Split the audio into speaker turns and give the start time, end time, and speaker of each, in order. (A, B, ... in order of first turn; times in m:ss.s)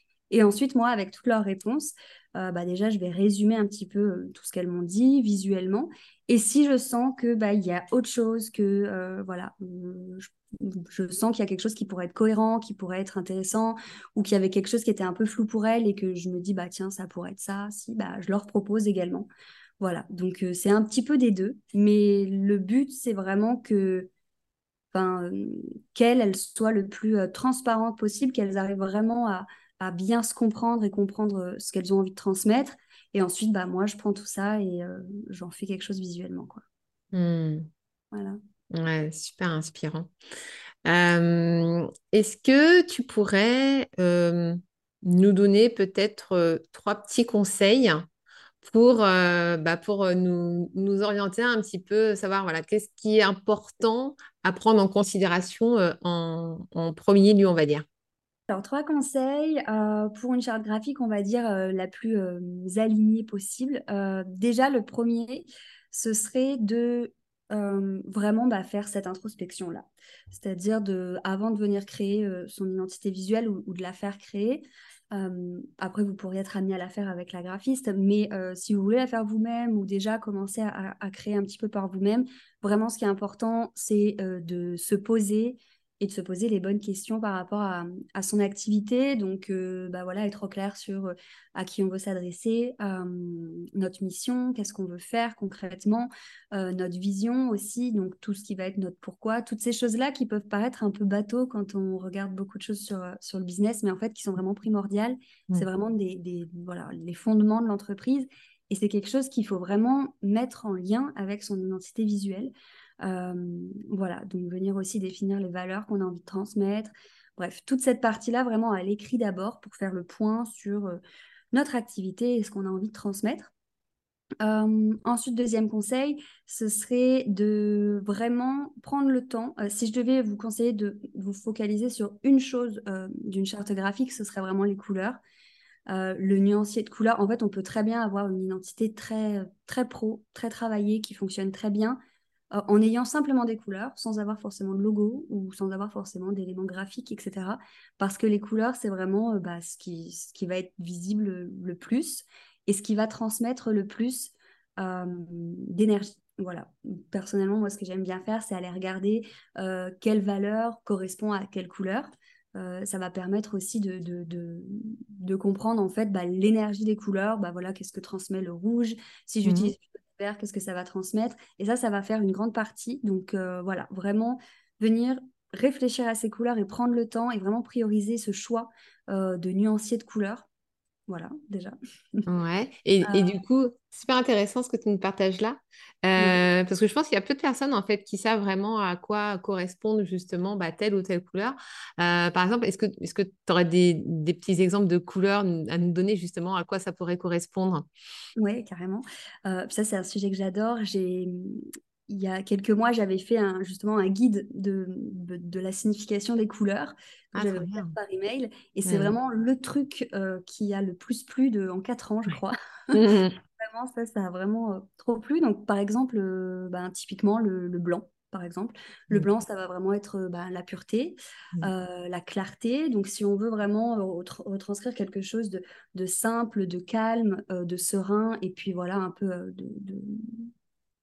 0:00.3-0:19.3 A
0:19.8-0:24.1 A
0:24.9-0:36.6 A
0:37.1-0:37.7 B
0:38.1-0:38.4 A
0:38.7-0:40.1 B
0:40.8-0:48.1 B
0:48.6-0:57.8 B
0:58.5-2:01.0 A
2:01.5-2:03.5 A
2:04.4-2:15.2 A
2:15.9-2:22.0 A
2:22.5-3:00.5 A
2:49.4-2:49.7 B
3:01.1-3:02.2 A
3:02.3-3:17.9 B
3:03.0-3:03.4 A
3:18.4-3:32.9 A
3:27.3-3:27.9 B
3:28.9-3:29.1 B
3:32.9-3:33.4 B
3:33.6-3:50.5 A